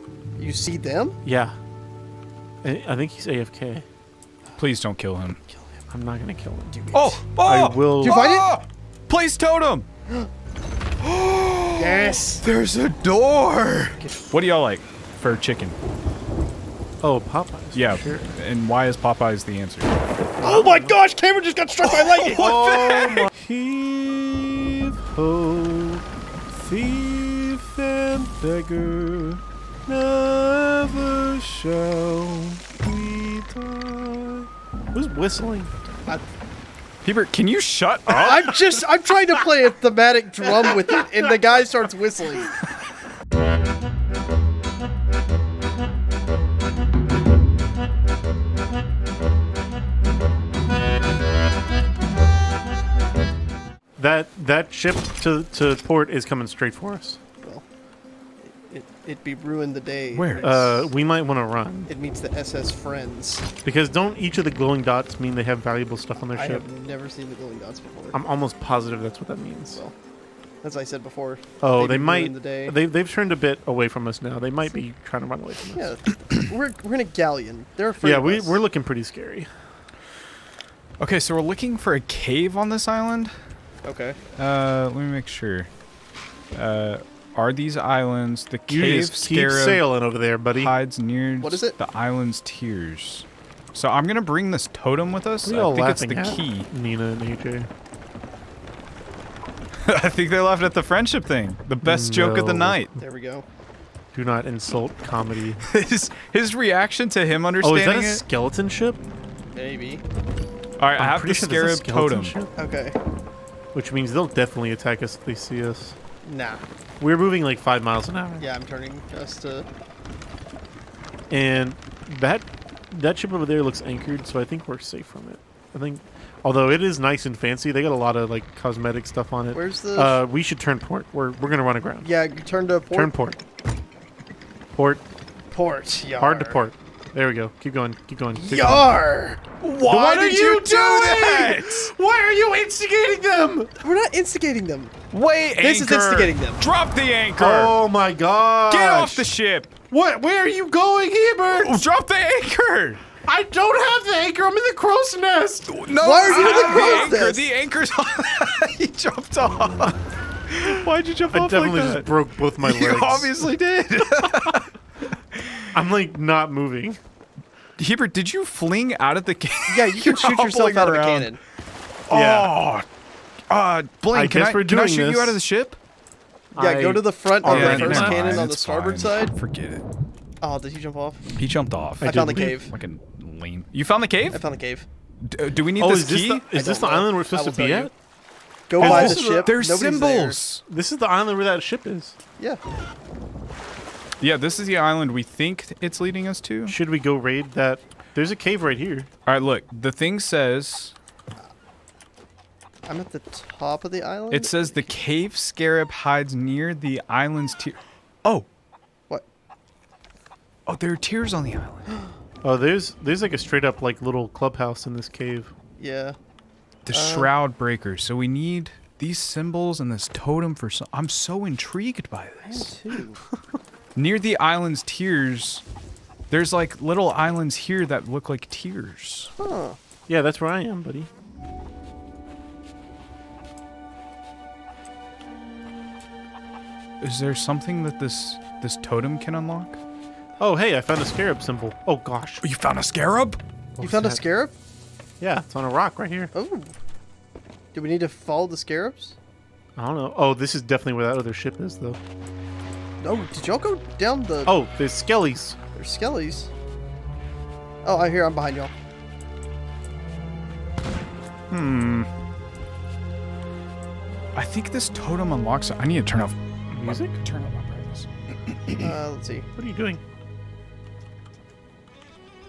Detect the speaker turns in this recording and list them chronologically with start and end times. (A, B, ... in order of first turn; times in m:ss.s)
0:00.4-0:01.2 A
0:01.2-0:01.6 B
0:02.6-0:03.9 B
0:04.6-0:05.4 C
0:05.5-0:05.8 A
0:05.9-0:06.8 B
0:06.7-0:07.2 A
0:06.9-0:09.9 C
0:07.4-0:08.2 B
0:08.0-0:08.5 A
0:11.0-0:15.8 C
0:11.8-0:12.4 A
0:17.0-0:18.3 B
0:17.7-0:20.0 C
0:20.4-0:20.9 B
0:20.4-0:22.4 A
0:21.8-0:23.3 C
0:22.4-0:35.7 B
0:37.0-0:38.6 C
0:38.1-0:38.5 B
0:38.2-0:42.5 A
0:40.4-0:41.1 B
0:54.0-0:57.2 B
0:57.4-0:57.7 A
0:58.4-1:00.9 A
1:00.1-1:00.6 C
1:00.4-1:01.9 B
1:01.9-1:03.5 A
1:03.6-1:06.6 B
1:06.3-1:08.2 A
1:08.1-1:09.8 B
1:10.6-1:12.8 A
1:11.6-1:15.9 B
1:15.8-1:18.6 A
1:18.0-1:19.6 B
1:21.0-1:23.4 C
1:23.8-1:24.2 A
1:24.4-1:25.7 C
1:26.5-1:29.8 C
1:28.7-1:30.8 B
1:30.6-1:36.7 C
1:31.4-1:31.8 A
1:35.5-1:37.7 B
1:39.8-1:43.0 C
1:41.8-1:42.8 B
1:43.0-1:43.4 A
1:44.1-1:45.6 B
1:45.6-1:48.2 C
1:47.6-1:49.0 B
1:49.5-1:50.0 A
1:50.8-1:52.4 C
1:51.0-1:52.6 B
1:52.6-1:53.0 A
1:53.7-1:56.0 B
1:56.2-1:56.6 A
1:57.0-1:58.5 B
1:58.4-1:59.7 A
2:01.3-2:12.1 B
2:09.5-2:10.2 A
2:12.0-2:13.1 A
2:12.9-2:13.4 B
2:14.7-2:15.0 B
2:15.5-2:16.6 A
2:16.2-2:19.0 B
2:18.3-2:19.4 A
2:19.6-2:21.9 C
2:19.9-2:23.7 B
2:23.8-2:25.0 A
2:25.1-2:27.8 C
2:25.6-2:26.6 A
2:27.4-2:29.3 B
2:28.7-2:29.8 C
2:29.9-2:31.8 B
2:31.5-2:33.1 C
2:33.2-2:37.2 B
2:35.7-2:40.0 C
2:36.0-2:37.4 A
2:40.6-2:42.1 C
2:41.3-2:43.5 B
2:42.6-2:44.7 C
2:45.3-2:45.7 C
2:45.7-2:47.0 B
2:47.8-2:51.4 C
2:49.7-2:51.4 A
2:52.1-2:52.8 C
2:52.1-2:52.5 B
2:53.5-2:55.8 C
2:54.1-2:55.4 B
2:56.6-2:58.4 B
2:56.6-2:59.3 A
2:57.4-2:59.8 C
3:00.4-3:01.2 A
3:01.4-3:04.4 C
3:02.0-3:02.6 B
3:02.0-3:02.7 A
3:04.3-3:04.9 A
3:05.2-3:06.5 C
3:05.8-3:07.9 B
3:06.5-3:07.9 A
3:08.7-3:10.4 A
3:08.8-3:09.5 B
3:08.8-3:10.6 C
3:10.7-3:12.2 B
3:14.2-3:16.8 C
3:16.7-3:19.1 B
3:19.3-3:20.9 C
3:22.9-3:24.9 A
3:24.3-3:28.5 C
3:30.7-3:31.9 C
3:32.4-3:35.5 B
3:35.8-3:36.2 A
3:36.9-3:42.7 C
3:36.9-3:37.3 A
3:42.4-3:43.2 A
3:44.0-3:45.6 C
3:46.3-3:49.3 C
3:49.4-3:49.8 A
3:50.1-3:51.1 B
3:57.0-3:59.8 C
4:00.4-4:02.4 B
4:02.4-4:03.4 C
4:03.8-4:04.2 B
4:03.8-4:04.5 A
4:05.2-4:06.3 B
4:06.3-4:06.8 A
4:07.7-4:09.2 A
4:09.8-4:12.0 B
4:13.0-4:14.6 A
4:14.5-4:15.6 B
4:15.7-4:16.5 A
4:17.8-4:18.7 A
4:21.5-4:22.1 C
4:24.4-4:28.9 C
4:26.7-4:27.2 B
4:28.8-4:29.5 A
4:29.6-4:30.0 B